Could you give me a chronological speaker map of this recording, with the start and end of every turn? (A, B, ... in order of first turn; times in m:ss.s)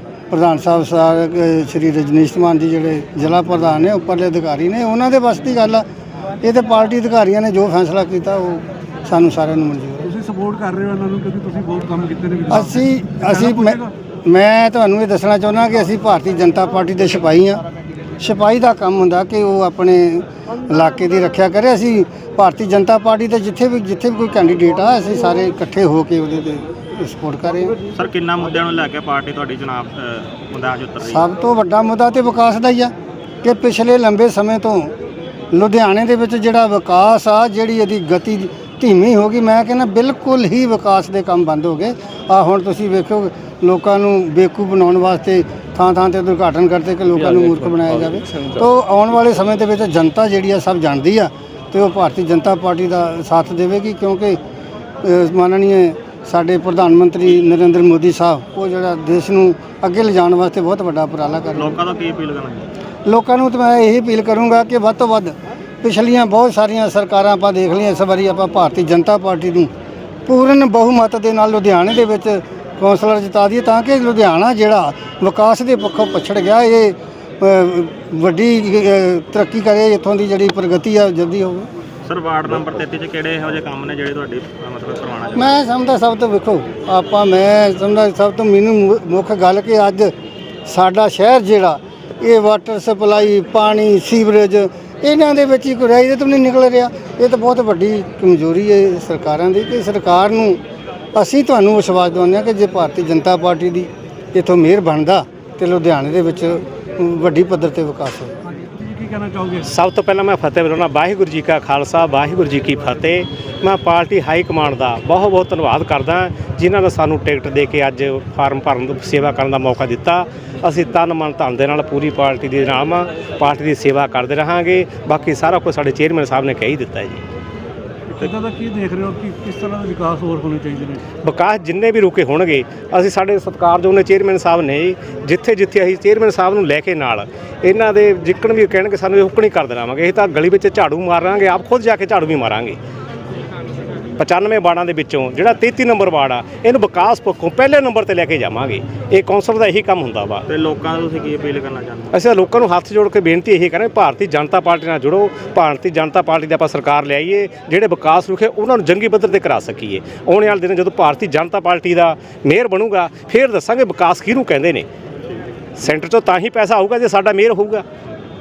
0:00.3-0:05.8 A
0:06.4-0:10.1 A
0:10.0-0:13.9 B
0:12.5-0:17.6 A
0:18.2-0:27.8 A
0:27.9-0:31.3 C
0:31.0-0:34.9 A
0:35.5-0:54.4 A
0:55.0-1:01.8 A
1:01.5-1:02.7 C
1:03.0-1:09.7 A
1:10.2-1:21.7 A
1:22.0-1:25.5 C
1:25.3-1:30.1 A
1:30.6-1:40.6 A
1:41.1-1:48.3 A
1:48.5-1:49.7 B
1:49.6-2:07.2 D
2:08.1-2:11.0 B
2:11.2-2:22.8 D
2:24.2-2:30.4 D
2:30.5-2:32.3 C
2:32.1-2:44.9 D
2:45.8-2:47.8 D